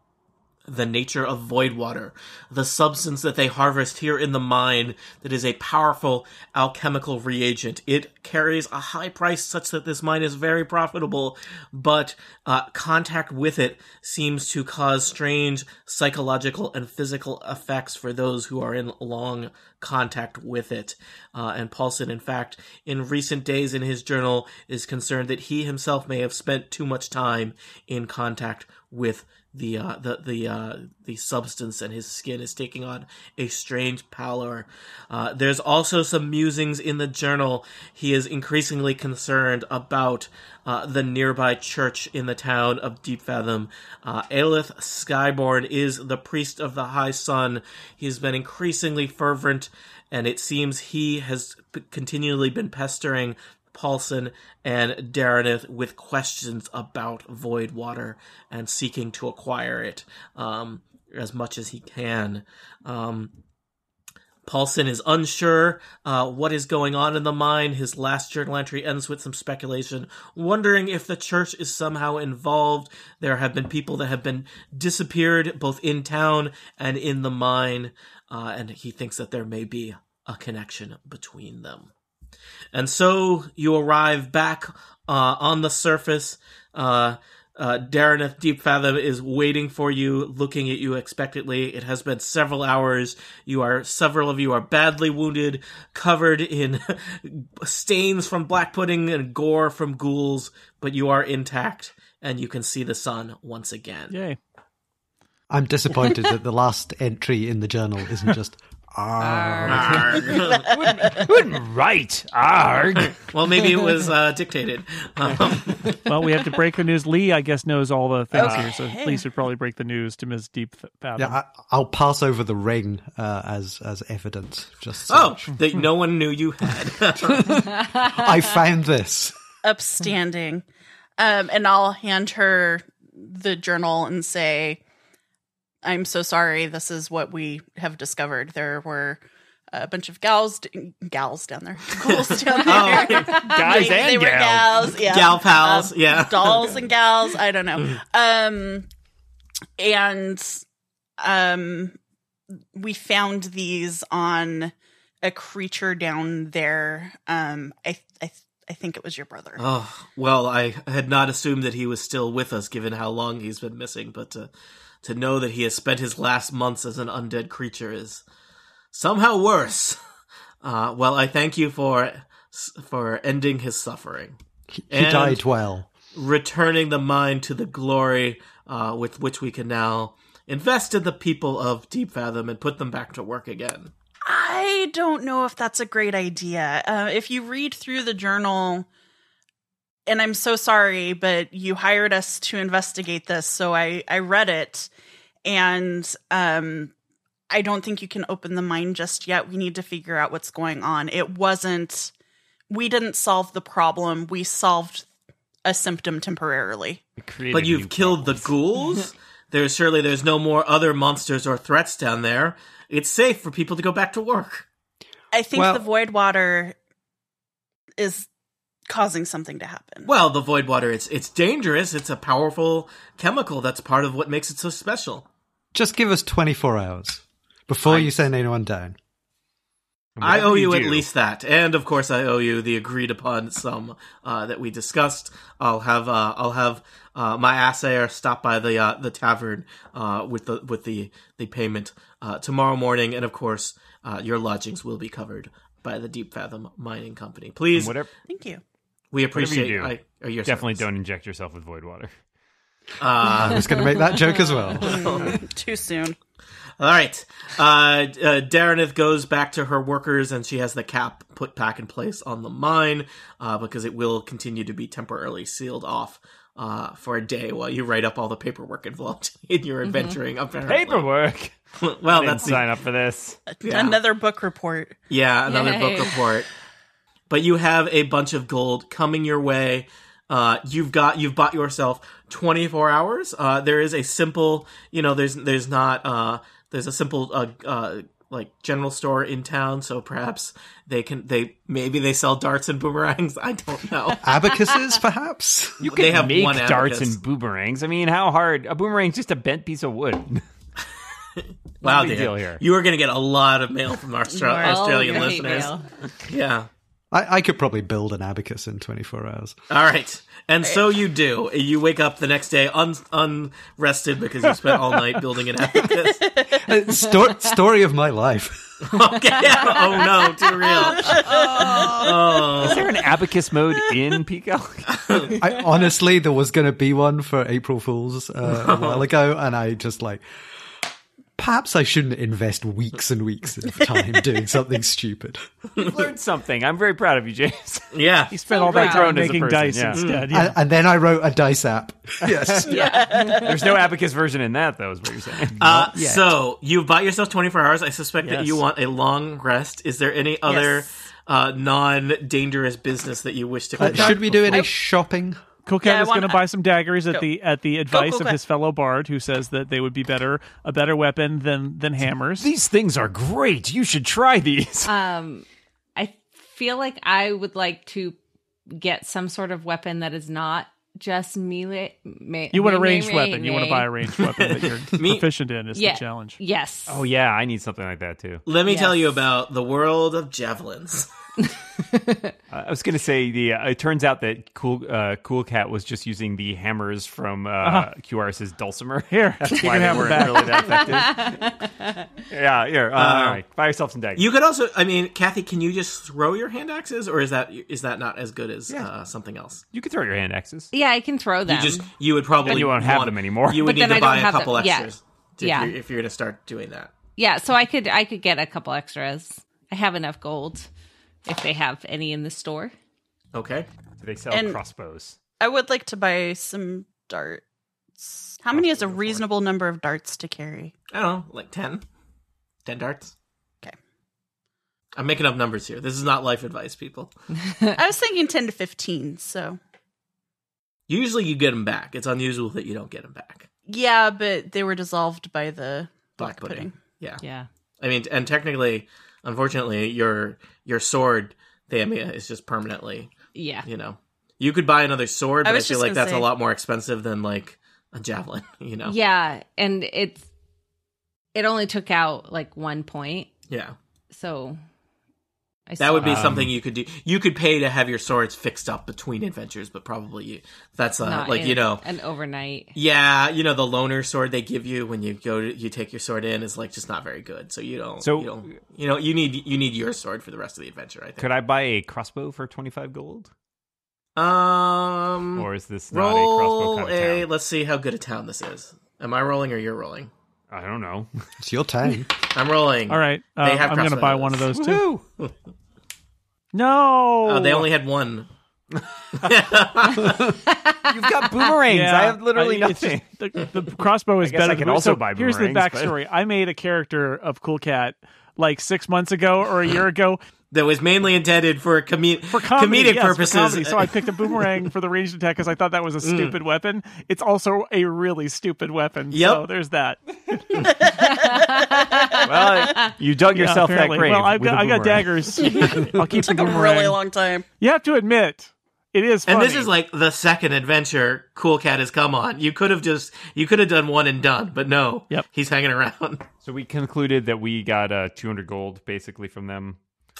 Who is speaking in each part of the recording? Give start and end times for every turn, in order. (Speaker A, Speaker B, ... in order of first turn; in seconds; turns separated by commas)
Speaker A: 0.7-63.3, Speaker A: 64.4-81.9, Speaker A: 82.7-104.2, Speaker B: 104.1-104.4, Speaker C: 105.5-110.4, Speaker D: 109.2-110.4, Speaker A: 109.7-110.8, Speaker E: 110.7-113.2, Speaker F: 110.7-111.2, Speaker A: 113.2-116.0, Speaker E: 115.4-115.9, Speaker B: 116.0-121.4, Speaker F: 118.3-119.2, Speaker E: 118.3-118.7, Speaker C: 121.2-125.5, Speaker A: 125.1-127.6, Speaker C: 127.2-129.3, Speaker F: 129.6-130.6, Speaker F: 131.2-134.8, Speaker F: 135.8-139.2, Speaker F: 139.7-148.8, Speaker A: 142.1-143.4, Speaker E: 143.3-144.9, Speaker A: 145.0-146.8, Speaker F: 149.8-150.6, Speaker F: 151.2-151.9, Speaker F: 152.7-159.6, Speaker A: 159.6-164.5, Speaker A: 165.0-168.2, Speaker A: 168.9-170.0, Speaker A: 170.6-174.3, Speaker C: 174.7-175.9, Speaker A: 174.9-175.4, Speaker A: 176.1-183.9, Speaker F: 184.2-188.9, Speaker F: 190.1-194.9, Speaker F: 195.4-196.9, Speaker F: 197.5-202.1, Speaker F: 202.7-205.1, Speaker F: 205.6-207.0, Speaker E: 207.2-208.5, Speaker A: 207.5-214.7, Speaker F: 215.3-216.7, Speaker C: 215.5-215.8, Speaker F: 218.0-218.3, Speaker F: 218.9-220.1, Speaker A: 220.0-225.2, Speaker C: 225.7-228.9, Speaker A: 227.8-228.1, Speaker E: 230.2-231.1, Speaker A: 230.2-247.9, Speaker E: 247.7-248.1, Speaker F: 248.3-248.6, Speaker A: 249.1-250.9, Speaker E: 249.3-252.1, Speaker A: 253.0-253.7, Speaker C: 253.2-255.2, Speaker A: 254.7-255.4, Speaker F: 254.8-256.2, Speaker A: 256.8-271.1, Speaker D: 269.9-270.2, Speaker E: 270.6-271.5, Speaker A: 271.8-272.7, Speaker E: 272.1-273.4, Speaker F: 273.5-274.9, Speaker A: 273.6-274.0, Speaker A: 275.1-276.5, Speaker D: 275.4-276.3, Speaker A: 277.3-294.2, Speaker C: 294.2-295.8, Speaker E: 295.8-300.4, Speaker A: 295.9-297.2, Speaker A: 301.4-305.7, Speaker E: 301.8-302.6, Speaker D: 304.3-305.8, Speaker F: 305.1-305.6, Speaker A: 306.3-306.7, Speaker C: 307.1-309.6, Speaker A: 309.7-316.3, Speaker F: 315.9-316.6, Speaker C: 316.5-319.1, Speaker A: 318.8-322.8, Speaker D: 320.9-322.2, Speaker F: 321.0-321.9, Speaker E: 321.4-325.3, Speaker A: 324.9-325.4, Speaker C: 325.4-330.2, Speaker A: 328.5-329.1, Speaker C: 331.4-335.4, Speaker E: 335.8-337.9, Speaker A: 337.9-338.4, Speaker B: 338.3-340.5, Speaker D: 338.5-339.2, Speaker E: 338.5-340.1, Speaker A: 339.9-340.3, Speaker C: 340.3-342.8, Speaker E: 342.2-345.6, Speaker D: 342.7-343.5, Speaker F: 342.7-343.6, Speaker A: 345.6-354.6, Speaker C: 345.6-346.4, Speaker B: 348.2-348.6, Speaker F: 350.4-350.8, Speaker C: 353.8-355.4, Speaker E: 353.8-354.2, Speaker B: 355.6-362.5, Speaker F: 355.8-356.4, Speaker F: 357.9-358.4, Speaker E: 362.4-364.9, Speaker D: 364.8-368.2, Speaker D: 368.7-373.9, Speaker B: 372.5-376.4, Speaker A: 374.4-375.2, Speaker D: 375.7-377.0, Speaker E: 376.9-378.4, Speaker A: 378.4-381.1, Speaker D: 378.6-379.0, Speaker D: 381.9-382.3, Speaker E: 382.5-391.4, Speaker B: 387.6-387.9, Speaker B: 389.1-390.9, Speaker D: 390.1-392.0, Speaker E: 392.3-394.3, Speaker A: 392.9-393.4, Speaker A: 394.1-399.6, Speaker E: 399.7-400.7, Speaker D: 400.7-401.9, Speaker A: 401.4-406.9, Speaker E: 402.4-403.8, Speaker D: 403.6-405.8, Speaker D: 407.2-410.7, Speaker D: 411.2-412.7, Speaker A: 413.3-413.7, Speaker E: 414.0-415.2, Speaker F: 414.3-414.6, Speaker F: 415.4-417.4, Speaker F: 418.0-420.7, Speaker E: 418.5-419.2, Speaker A: 420.9-421.8, Speaker A: 422.6-423.1, Speaker A: 424.9-427.1, Speaker F: 427.7-429.6, Speaker A: 430.9-433.5, Speaker F: 433.7-436.7, Speaker A: 436.2-437.2, Speaker D: 437.2-437.5, Speaker A: 437.8-448.9, Speaker D: 443.3-443.7, Speaker F: 445.4-446.3, Speaker D: 448.8-450.2, Speaker D: 451.3-453.3, Speaker A: 453.5-453.7, Speaker D: 454.1-454.6, Speaker D: 455.7-456.4, Speaker A: 455.8-461.8, Speaker E: 456.0-456.5, Speaker D: 461.0-462.7, Speaker A: 462.7-471.2, Speaker E: 468.0-468.6, Speaker E: 471.2-473.3, Speaker A: 474.1-480.1, Speaker E: 475.4-477.3, Speaker E: 480.5-481.1, Speaker C: 481.4-482.1, Speaker A: 482.3-485.3, Speaker B: 482.9-485.0, Speaker B: 486.5-487.7, Speaker A: 487.2-488.3, Speaker A: 489.1-490.3, Speaker D: 490.5-490.9, Speaker E: 490.9-493.1, Speaker B: 491.7-500.2, Speaker E: 494.2-495.9, Speaker A: 500.5-503.9, Speaker B: 502.3-510.5, Speaker A: 506.0-506.4, Speaker A: 509.1-509.4, Speaker F: 510.5-512.3, Speaker D: 511.2-512.9, Speaker E: 512.2-515.5, Speaker B: 513.3-517.0, Speaker F: 515.4-517.4, Speaker B: 517.6-519.7, Speaker A: 519.2-526.2, Speaker E: 526.4-529.8